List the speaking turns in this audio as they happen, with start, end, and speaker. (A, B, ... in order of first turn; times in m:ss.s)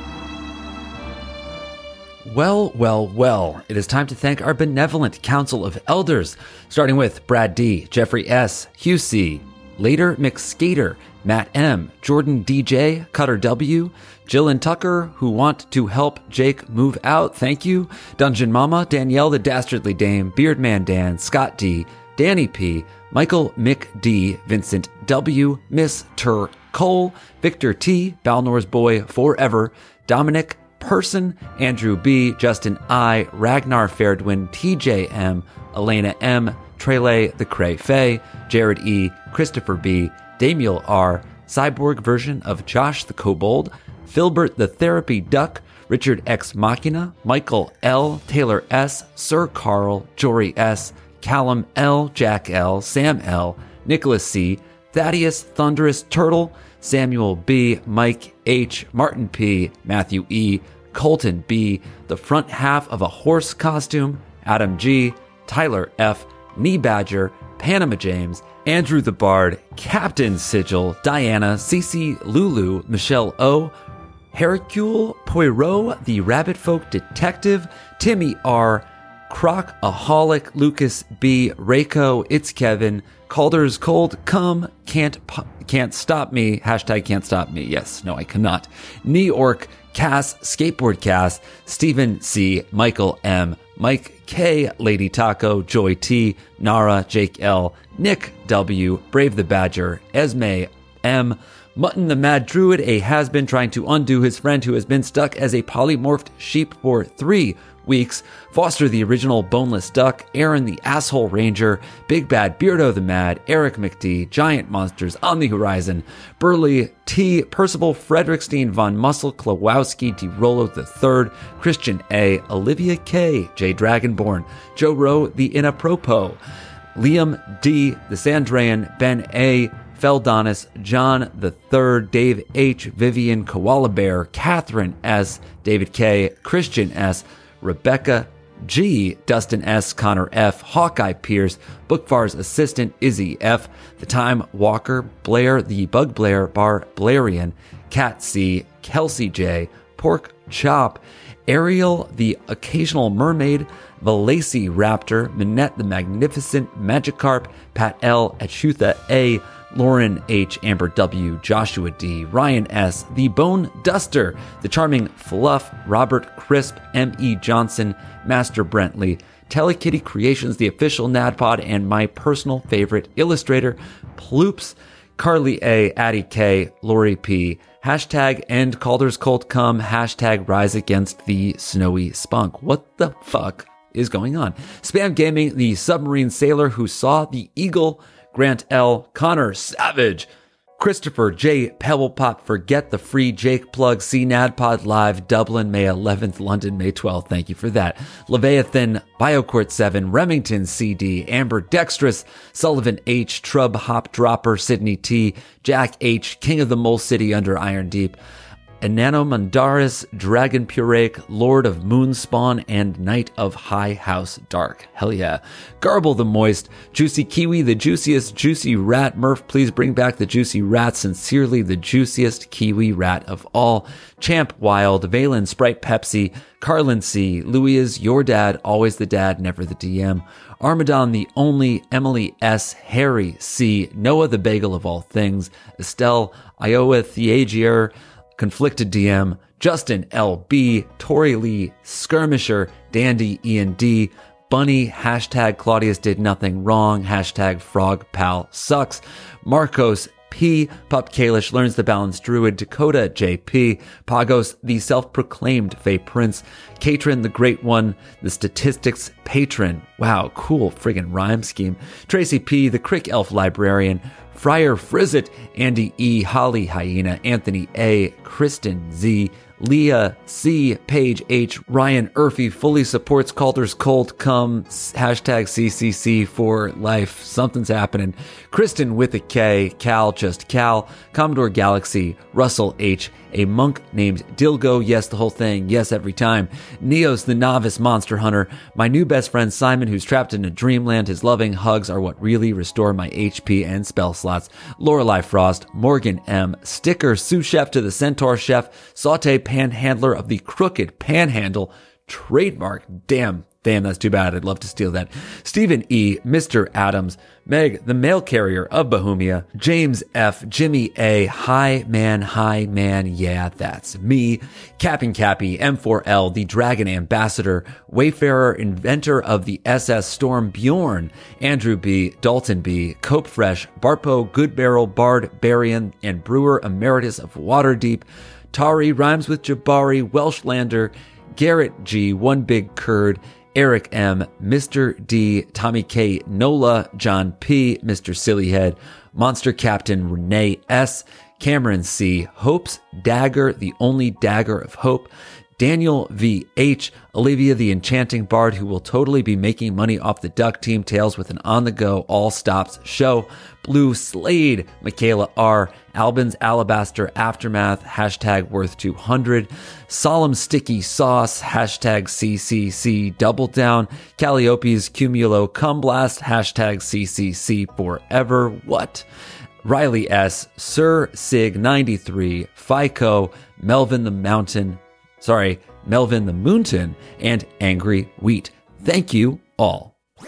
0:02.2-1:13.7 A
1:14.3-2:06.4 A
2:06.9-3:28.2 A
3:28.8-6:09.0 A
6:09.6-6:19.9 A